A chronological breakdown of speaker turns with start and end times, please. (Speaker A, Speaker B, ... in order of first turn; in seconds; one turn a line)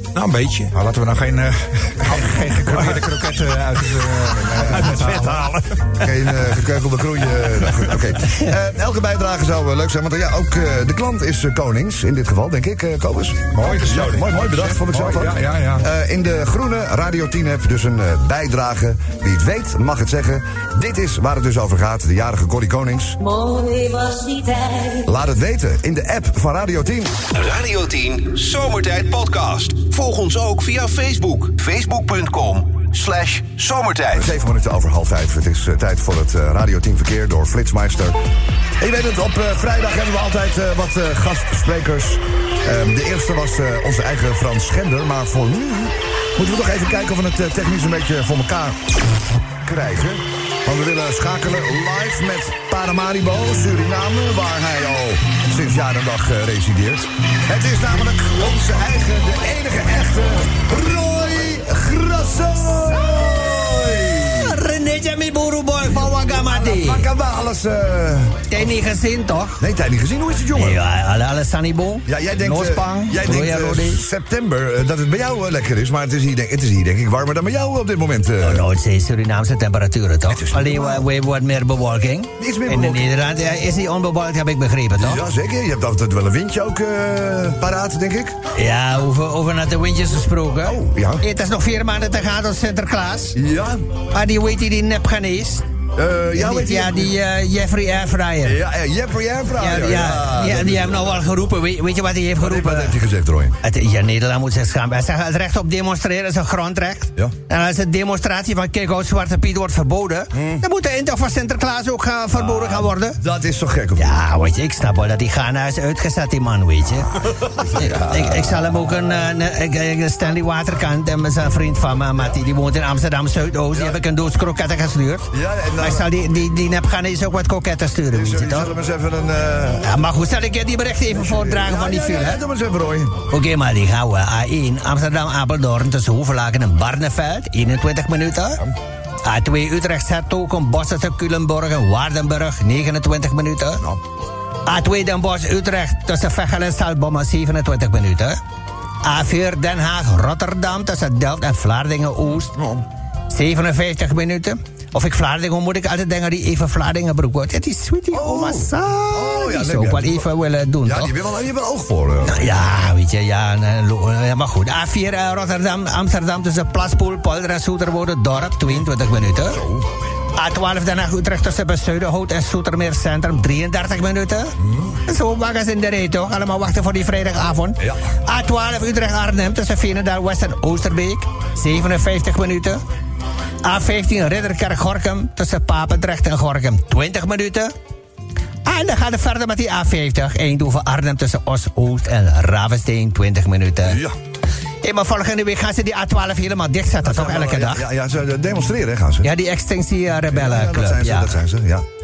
Speaker A: 0.1-0.7
Speaker B: 0.7-5.4
Speaker C: 4.4-5.1
Speaker A: 4.5-5.8
Speaker C: 6.0-23.2
Speaker B: 13.5-15.8
Speaker A: 13.6-14.1
Speaker C: 25.0-27.1
Speaker D: 27.3-34.3
Speaker C: 34.1-38.2
Speaker C: 38.8-49.0
Speaker C: 49.6-64.6
Speaker E: 64.3-67.1
Speaker C: 65.8-68.8
Speaker E: 68.5-69.6
Speaker C: 69.6-70.8
Speaker E: 70.5-74.0
Speaker C: 72.0-78.7
Speaker E: 78.4-85.2
Speaker C: 80.3-81.1
Speaker C: 82.4-83.1
Speaker C: 85.0-88.4
Speaker E: 88.5-93.4
Speaker C: 90.6-91.2
Speaker C: 93.3-93.8
Speaker E: 94.1-95.6
Speaker C: 95.9-97.2
Speaker E: 96.3-98.6
Speaker C: 98.4-101.5
Speaker E: 99.6-103.0
Speaker C: 102.3-103.6
Speaker E: 103.6-113.2
Speaker C: 110.3-110.6
Speaker C: 112.3-114.1
Speaker E: 114.0-117.1
Speaker C: 117.5-118.6
Speaker E: 117.7-128.7
Speaker C: 123.7-124.0
Speaker C: 125.3-126.1
Speaker C: 128.1-130.0
Speaker E: 129.8-132.4
Speaker C: 131.1-133.2
Speaker E: 133.3-138.6
Speaker E: 139.2-143.8
Speaker E: 144.7-148.4
Speaker E: 149.0-152.6
Speaker E: 153.3-161.1
Speaker C: 158.1-162.5
Speaker E: 162.2-169.6
Speaker C: 169.4-169.9
Speaker E: 170.3-174.5
Speaker C: 174.6-175.0
Speaker E: 175.1-182.8
Speaker E: 183.6-187.7
Speaker E: 188.7-194.0
Speaker C: 193.8-194.2
Speaker E: 194.8-197.8
Speaker C: 197.0-199.3
Speaker E: 199.2-201.3
Speaker C: 200.2-201.8